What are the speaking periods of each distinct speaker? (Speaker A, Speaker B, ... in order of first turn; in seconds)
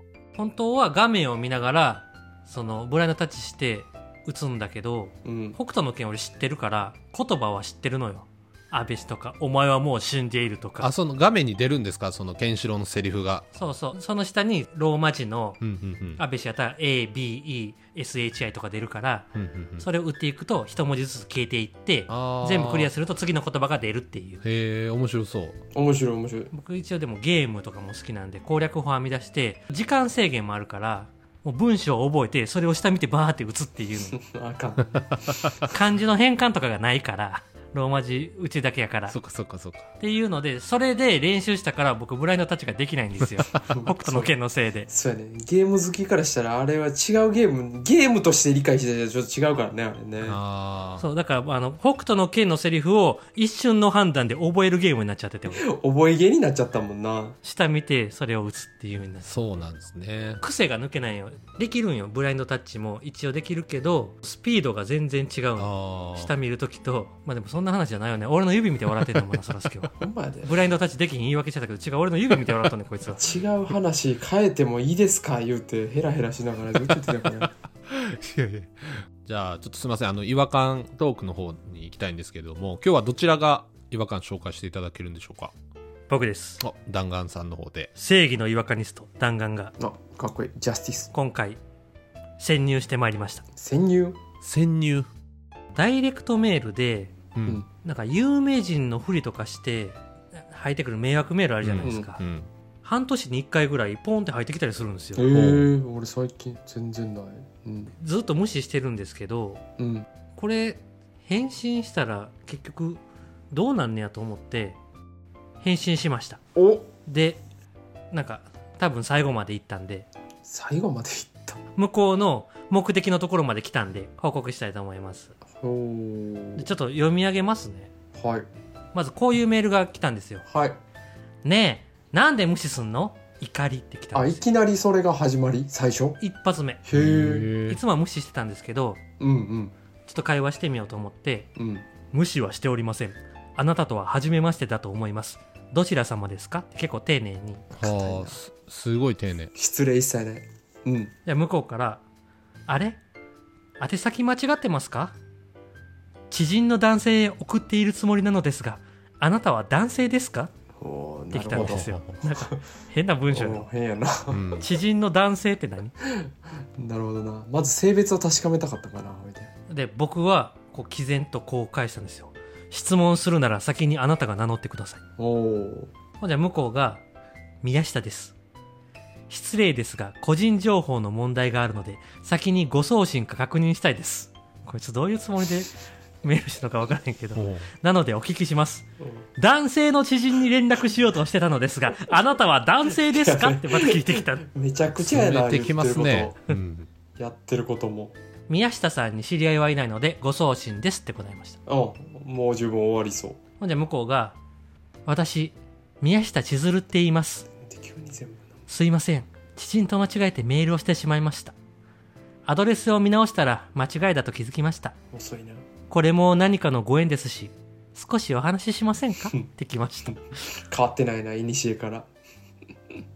Speaker A: 0.3-10.9, 13.6-15.6, 16.2-24.4, 26.5-34.2, 35.6-39.2, 40.0-44.9, 51.0-55.7, 57.4-59.3, 60.4-73.2, 86.1-86.6, 88.0-89.7, 91.1-91.6, 92.4-93.5, 95.8-97.1, 97.8-102.2, 102.8-105.3, 108.0-109.6, 110.4-113.0, 113.5-114.8, 115.6-116.4, 117.1-117.4, 118.1-120.1, 121.8-125.3, 126.6-127.9, 128.9-130.5, 131.4-134.4, 136.2-136.8, 137.7-139.0, 140.1-141.5, 142.1-147.7, 151.3-152.0, 152.7-153.0, 153.8-155.2, 156.3-160.5, 161.3-163.7, 164.6-165.9, 169.7-175.0, 176.2-177.0, 177.6-178.3, 179.3-194.5, 198.5-201.6, 203.6-204.4, 205.1-207.5, 208.7-211.5, 212.4-214.9, 215.9-220.4
Speaker B: 5.2-5.6, 25.7-26.5, 34.1-35.5, 43.7-44.3, 44.9-50.4, 55.5-57.4, 70.0-70.5, 73.2-77.5, 89.8-91.1, 93.5-94.2, 101.8-102.1, 105.2-107.9, 109.8-110.1, 116.5-116.9, 120.5-121.6, 125.5-126.7, 128.2-128.5, 130.5-130.8, 134.1-136.2, 136.8-137.5, 139.2-139.8, 141.6-141.8, 147.7-148.4, 149.6-151.1, 160.8-162.6, 163.3-164.5, 166.0-169.5, 175.2-175.9, 193.0-196.4, 197.2-198.2, 201.7-203.4, 207.6-208.5, 215.1-215.7, 220.6-222.1
Speaker C: 10.8-13.5, 15.6-16.2, 19.4-19.9, 22.1-22.9, 24.4-25.6, 39.1-39.9, 50.2-51.0, 59.2-60.4, 65.6-66.3, 69.0-69.4, 77.9-85.5, 86.6-87.9, 94.4-95.1, 97.3-97.6, 101.6-102.5, 105.3-105.7, 136.9-137.8, 147.8-149.5, 161.5-162.1, 164.3-164.7, 187.3-187.7, 195.0-196.9